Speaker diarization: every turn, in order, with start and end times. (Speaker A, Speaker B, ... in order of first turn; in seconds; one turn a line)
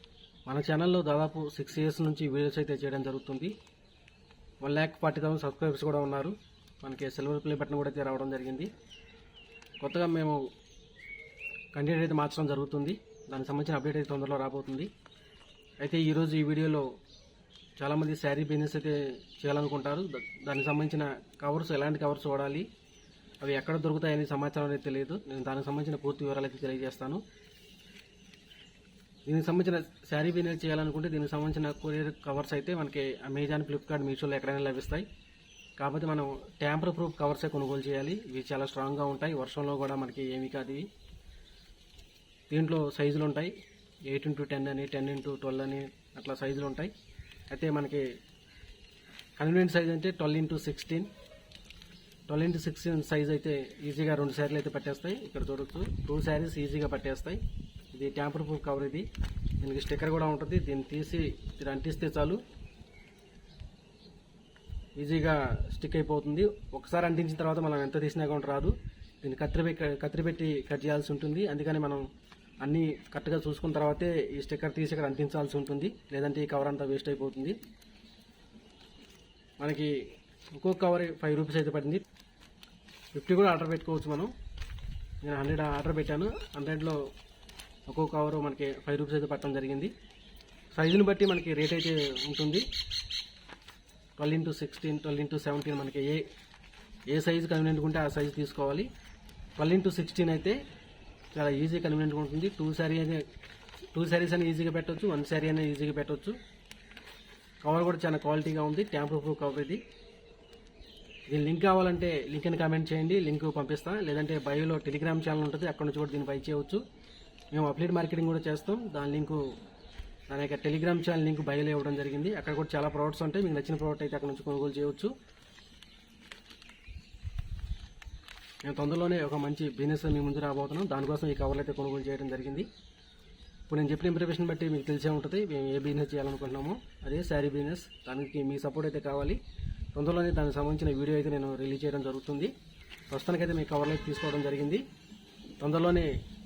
Speaker A: 0.5-3.5
Speaker A: 4.6-8.7
Speaker A: 9.8-10.4
Speaker A: 11.7-14.9
Speaker A: 15.8-16.9
Speaker A: 17.8-22.6
Speaker A: 23.4-27.2
Speaker A: 29.2-35.0
Speaker A: 35.8-40.9
Speaker A: 42.5-43.5
Speaker A: 44.1-46.9
Speaker A: 47.5-48.0
Speaker A: 49.4-51.1
Speaker A: 52.3-57.4
Speaker A: 57.9-59.1
Speaker A: 59.6-62.4
Speaker A: 65.0-72.0
Speaker A: 72.6-77.6
Speaker A: 79.6-79.9
Speaker A: 80.6-82.0
Speaker A: 83.1-84.3
Speaker A: 85.2-87.0
Speaker A: 87.9-89.9
Speaker A: 90.7-92.7
Speaker A: 94.2-96.2
Speaker A: 97.1-98.9
Speaker A: 99.6-100.6
Speaker A: 101.3-103.2
Speaker A: 103.9-106.4
Speaker A: 107.6-109.8
Speaker A: 111.3-116.8
Speaker A: 117.5-119.4
Speaker A: 120.3-125.1
Speaker A: 128.6-132.7
Speaker A: 133.7-139.4
Speaker A: 139.9-142.5
Speaker A: 143.1-144.8
Speaker A: 145.6-146.1